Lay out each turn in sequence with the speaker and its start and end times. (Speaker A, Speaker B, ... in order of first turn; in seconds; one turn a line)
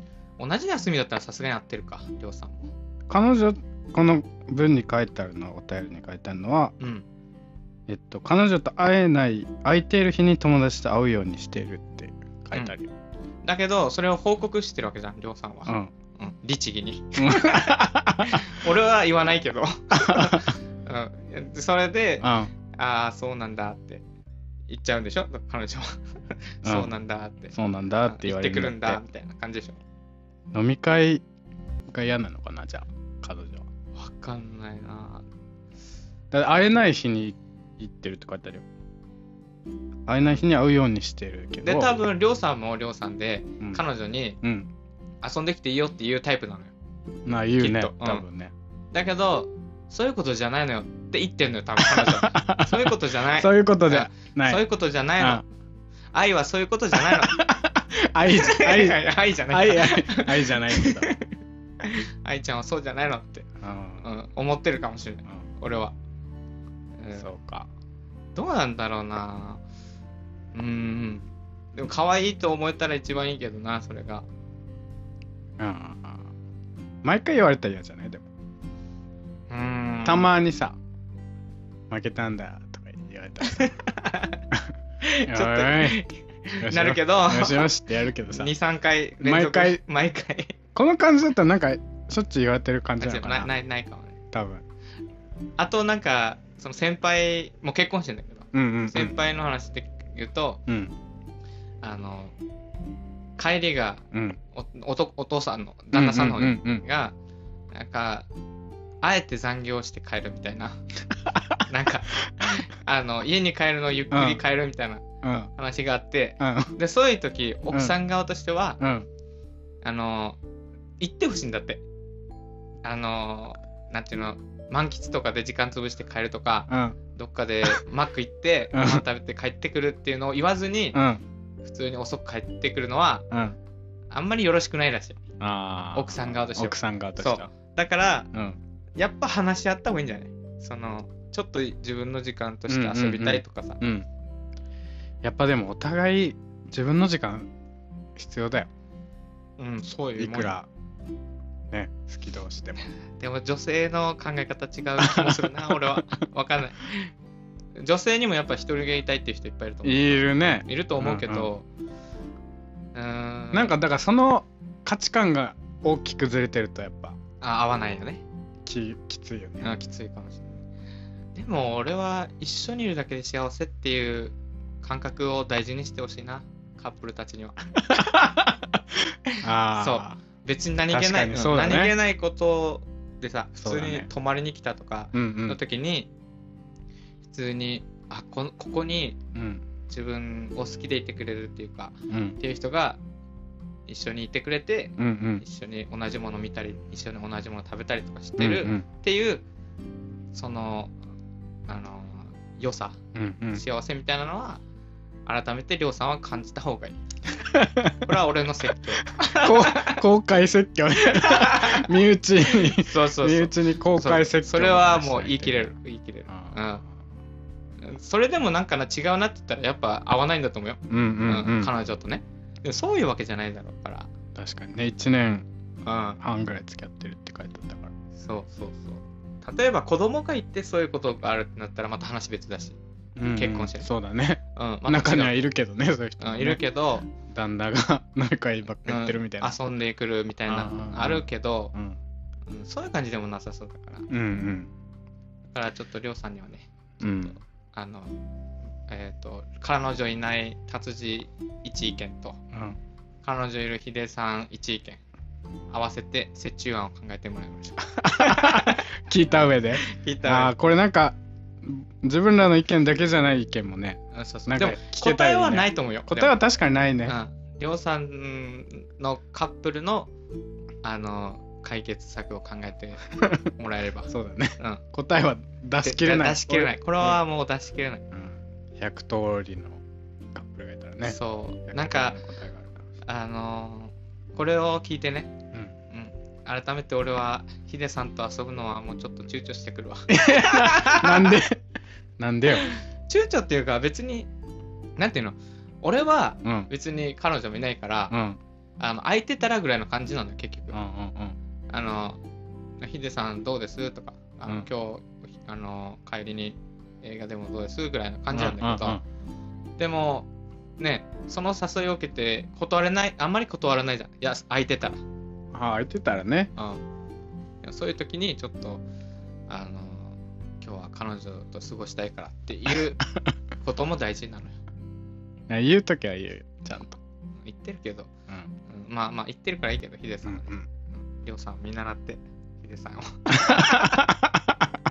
Speaker A: 0.4-2.7
Speaker B: 3.1-6.7
Speaker A: 6.8-7.0
Speaker B: 7.9-12.9
Speaker A: 13.4-24.0
Speaker B: 15.7-15.9
Speaker B: 17.2-18.5
Speaker B: 20.0-20.4
Speaker B: 22.2-22.5
Speaker A: 24.7-26.0
Speaker A: 26.6-27.5
Speaker B: 26.6-26.9
Speaker B: 27.5-29.0
Speaker A: 28.1-29.8
Speaker B: 30.5-31.2
Speaker B: 31.9-33.6
Speaker A: 34.0-35.2
Speaker B: 36.3-38.6
Speaker B: 40.1-42.0
Speaker A: 41.6-44.4
Speaker B: 44.4-44.7
Speaker A: 45.2-46.7
Speaker B: 47.3-48.5
Speaker A: 47.6-48.2
Speaker A: 48.9-55.4
Speaker B: 51.8-54.6
Speaker A: 56.1-57.4
Speaker B: 57.0-61.1
Speaker A: 58.3-61.3
Speaker A: 61.8-63.5
Speaker B: 63.6-64.1
Speaker A: 64.0-66.0
Speaker A: 67.0-67.3
Speaker B: 67.2-67.7
Speaker A: 68.3-69.6
Speaker A: 70.5-74.3
Speaker B: 75.6-76.3
Speaker B: 77.0-78.3
Speaker A: 79.5-80.3
Speaker B: 80.0-80.8
Speaker B: 81.9-83.8
Speaker A: 83.4-84.4
Speaker A: 85.0-87.7
Speaker B: 85.3-86.0
Speaker B: 86.6-88.5
Speaker A: 88.3-90.6
Speaker B: 89.2-89.8
Speaker B: 90.8-93.5
Speaker A: 93.0-94.2
Speaker B: 94.3-94.6
Speaker A: 95.6-100.6
Speaker B: 98.5-99.2
Speaker B: 100.7-100.9
Speaker A: 101.8-102.3
Speaker A: 103.4-107.1
Speaker B: 104.1-104.4
Speaker B: 105.9-106.8
Speaker A: 107.7-108.3
Speaker A: 109.0-110.8
Speaker B: 111.3-111.6
Speaker A: 111.7-115.0
Speaker B: 114.1-114.4
Speaker B: 115.2-115.5
Speaker A: 115.6-118.8
Speaker B: 116.4-116.8
Speaker B: 118.8-119.1
Speaker A: 119.8-120.4
Speaker A: 121.0-121.8
Speaker A: 122.8-131.0
Speaker B: 126.7-127.0
Speaker B: 128.7-129.0
Speaker B: 130.9-131.2
Speaker A: 131.6-133.3
Speaker B: 133.3-133.6
Speaker A: 134.1-135.2
Speaker B: 135.4-137.5
Speaker A: 135.9-138.3
Speaker B: 138.3-138.6
Speaker A: 139.0-143.8
Speaker B: 142.7-144.1
Speaker B: 145.2-147.5
Speaker B: 148.2-148.7
Speaker A: 149.6-150.5
Speaker B: 150.2-150.7
Speaker B: 151.7-152.8
Speaker A: 153.2-157.1
Speaker B: 155.0-156.0
Speaker A: 157.8-161.7
Speaker B: 159.8-161.5
Speaker A: 162.9-163.8
Speaker B: 163.5-167.2
Speaker A: 167.4-168.2
Speaker B: 168.6-169.7
Speaker A: 169.6-170.6
Speaker A: 171.3-178.1
Speaker B: 177.9-178.6
Speaker A: 179.3-186.1
Speaker B: 179.4-180.2
Speaker B: 180.9-181.9
Speaker B: 183.6-184.1
Speaker B: 185.1-185.6
Speaker A: 187.2-189.2
Speaker B: 189.3-189.6
Speaker A: 189.9-193.0
Speaker B: 192.1-192.4
Speaker A: 193.9-199.4
Speaker B: 195.0-195.4
Speaker B: 198.4-198.9
Speaker A: 200.3-200.9
Speaker A: 201.7-203.0
Speaker B: 203.1-203.6
Speaker A: 203.5-204.6
Speaker A: 205.3-207.0
Speaker B: 207.5-208.1
Speaker A: 207.9-210.0
Speaker B: 209.2-215.7
Speaker A: 211.0-216.8
Speaker B: 216.3-216.6
Speaker A: 217.8-224.1
Speaker B: 220.9-221.7
Speaker B: 224.3-225.5
Speaker A: 225.8-226.2
Speaker B: 226.2-227.9
Speaker A: 228.2-232.8
Speaker B: 233.2-236.6
Speaker A: 233.3-233.9
Speaker A: 234.6-235.4
Speaker A: 236.2-237.1
Speaker B: 237.2-239.6
Speaker A: 238.9-241.8
Speaker B: 240.5-242.0
Speaker A: 242.5-244.1
Speaker B: 244.1-244.7
Speaker A: 245.5-246.7
Speaker B: 247.0-247.4
Speaker A: 247.2-248.1
Speaker A: 248.9-252.4
Speaker B: 252.5-252.8
Speaker A: 253.2-255.0
Speaker A: 255.7-258.9
Speaker B: 258.0-267.2
Speaker A: 259.8-260.5
Speaker A: 264.1-266.4
Speaker A: 267.1-270.1
Speaker A: 270.8-274.8
Speaker B: 274.1-277.2
Speaker A: 275.8-278.0
Speaker B: 278.1-279.8
Speaker B: 280.3-282.9
Speaker A: 281.0-282.2
Speaker A: 283.1-285.3
Speaker A: 285.9-291.4
Speaker B: 290.1-291.6
Speaker B: 292.2-292.7
Speaker A: 292.5-294.3
Speaker A: 295.0-298.1
Speaker B: 298.1-298.4
Speaker A: 298.8-300.8
Speaker B: 300.7-301.4
Speaker A: 301.7-302.2
Speaker A: 302.8-309.0
Speaker B: 308.3-309.0
Speaker A: 309.8-310.3
Speaker A: 310.8-315.0
Speaker B: 315.5-316.5
Speaker A: 316.6-316.8
Speaker A: 317.6-318.8
Speaker A: 319.5-323.1
Speaker A: 323.6-324.6
Speaker B: 325.5-327.0
Speaker A: 327.4-328.1
Speaker A: 328.7-334.1
Speaker B: 330.2-330.7
Speaker B: 333.3-334.7